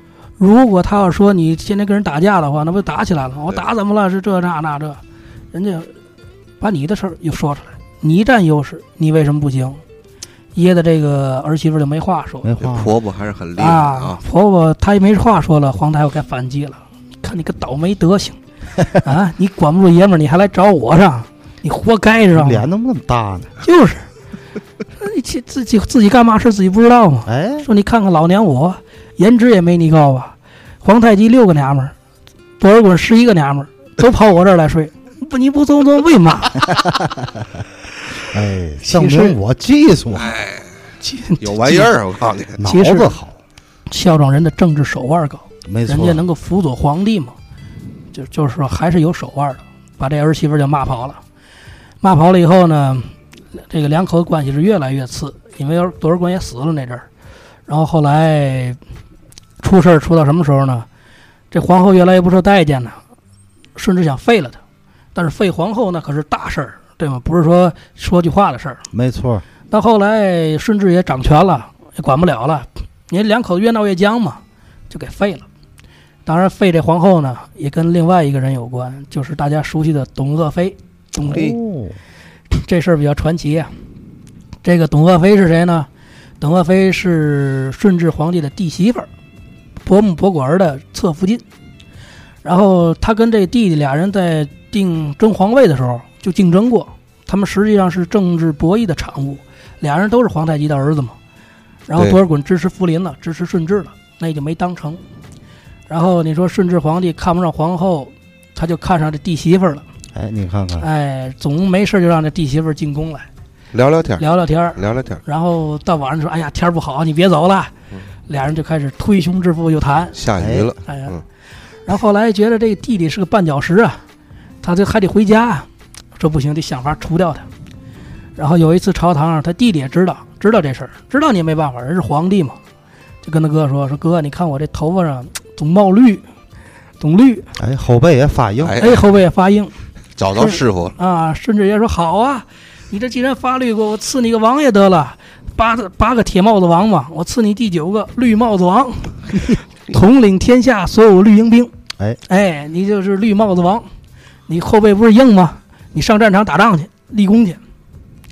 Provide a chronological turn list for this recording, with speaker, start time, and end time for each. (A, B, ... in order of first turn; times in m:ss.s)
0:00.4-0:05.0 A
0:05.5-0:05.9 A
0:06.6-0:09.8 A
0:10.5-0:12.5 A
0:12.4-0:12.9 B
0:12.6-0:14.2 C
0:13.6-0:18.4 A
0:18.9-0:22.7 A
0:22.3-0:23.5 B
0:23.6-0:24.0 A
0:25.0-0:31.9 A
0:27.3-0:27.6 B
0:32.6-0:36.8 A
0:38.3-0:40.4 B
0:38.8-0:39.4 A
0:40.2-0:40.7 C
0:41.0-0:41.9 A
0:41.4-0:42.6 C
0:42.6-0:43.3 B
0:42.6-0:43.2 A
0:43.9-0:47.3 A
0:45.6-0:46.2 B
0:48.1-0:51.2 A
0:52.0-0:57.0 A
0:57.7-0:58.8 A
0:59.6-1:00.9 A
1:01.5-1:03.0 A
1:03.8-1:04.6 A
1:05.1-1:08.8 A
1:08.9-1:09.4 B
1:09.7-1:15.4 A
1:16.2-1:21.5 A
1:21.3-1:22.0 B
1:22.5-1:23.7 A
1:24.6-1:25.9 A
1:26.4-1:29.1 A
1:29.8-1:31.4 A
1:32.4-1:41.2 A
1:41.9-1:45.0 A
1:45.9-1:49.8 A
1:50.1-1:50.9 B
1:50.8-1:53.3 A
1:53.7-1:54.2 C
1:54.2-1:57.7 A
1:54.8-1:55.2 C
1:58.3-2:00.2 A
2:00.1-2:01.2 C
2:00.4-2:00.7 B
2:00.9-2:01.1 A
2:01.8-2:04.0 A
2:04.6-2:07.5 A
2:08.4-2:12.6 A
2:13.2-2:16.2 A
2:17.0-2:17.5 A
2:17.6-2:18.8 B
2:18.6-2:19.0 C
2:18.8-2:19.7 A
2:20.2-2:21.0 C
2:20.3-2:31.7 A
2:32.3-2:33.9 A
2:34.5-2:37.6 A